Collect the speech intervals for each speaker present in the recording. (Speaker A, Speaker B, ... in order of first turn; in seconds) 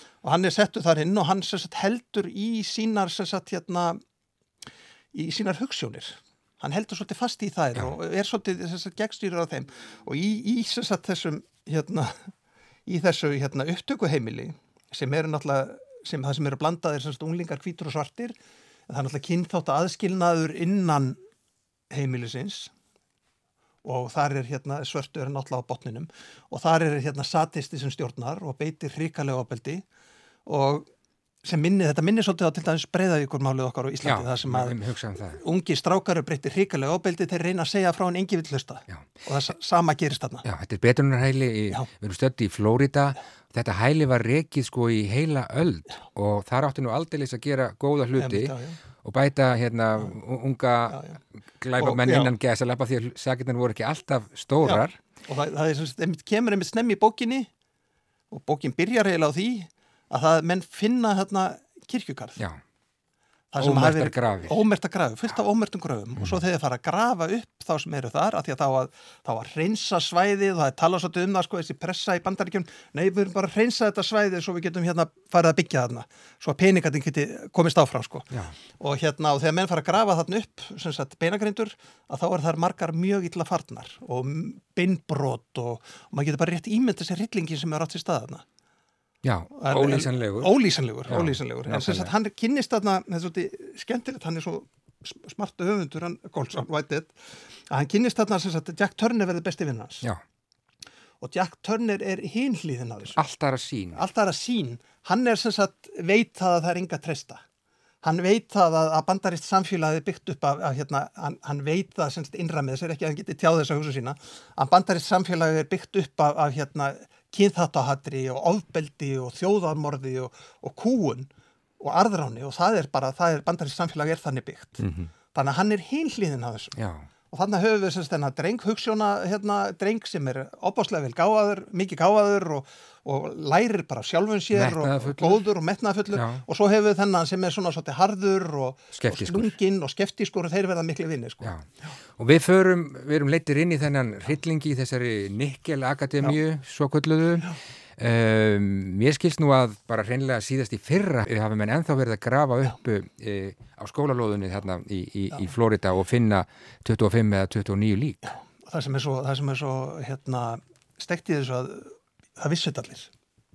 Speaker A: 0.2-4.0, 5.1-12.3, 12.8-18.3, 18.9-21.2, 21.9-22.7, 23.8-29.8, 30.4-30.9, 31.4-34.8, 35.4-40.4, 48.1-48.8, 50.9-51.2, 51.8-52.3, 54.6-57.5, 58.3-62.4, 63.5-88.4, 89.6-100.0, 101.2-103.2, 103.9-107.4, 108.0-124.8, 125.3-126.8, 127.3-141.9, 158.2-163.1
Speaker B: 34.0-35.4, 40.4-51.0, 51.6-55.0, 63.6-64.6, 78.3-78.5, 89.2-90.5, 91.1-92.1, 103.1-104.0, 124.8-125.1, 126.8-127.1, 134.5-135.4, 136.1-136.4, 138.9-139.6, 142.2-158.3